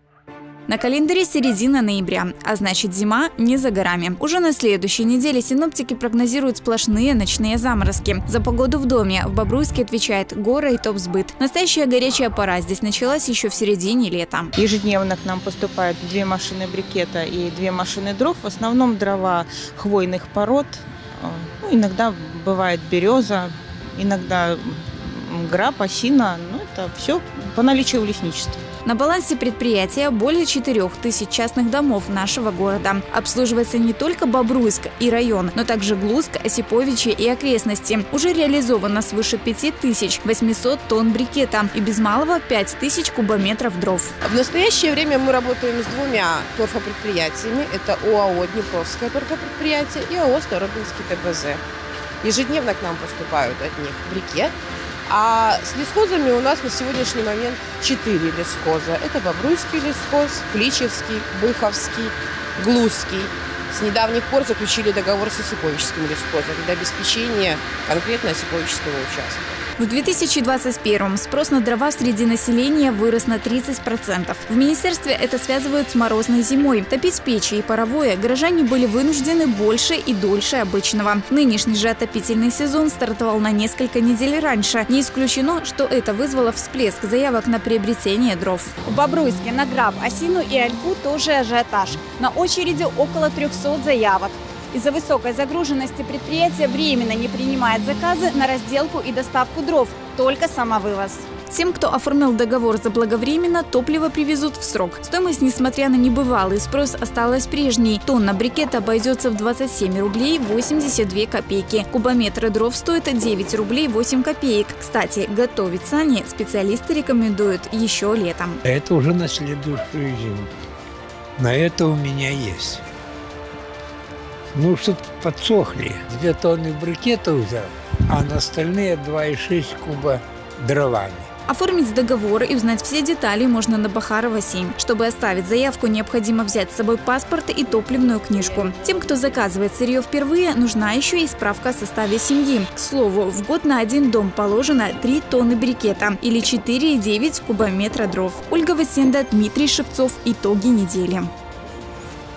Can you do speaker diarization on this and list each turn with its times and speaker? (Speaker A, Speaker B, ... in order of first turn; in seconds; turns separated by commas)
Speaker A: 0.7-14.5, Speaker B: 14.6-28.6, Speaker A: 28.9-44.1, Speaker C: 44.2-51.6, Speaker C: 52.2-54.5, Speaker C: 55.1-69.6, Speaker A: 69.8-88.8, Speaker D: 88.9-101.2, Speaker A: 101.5-118.6, Speaker E: 118.7-120.5, Speaker E: 121.4-122.8, Speaker E: 124.5-131.3, Speaker A: 131.5-151.3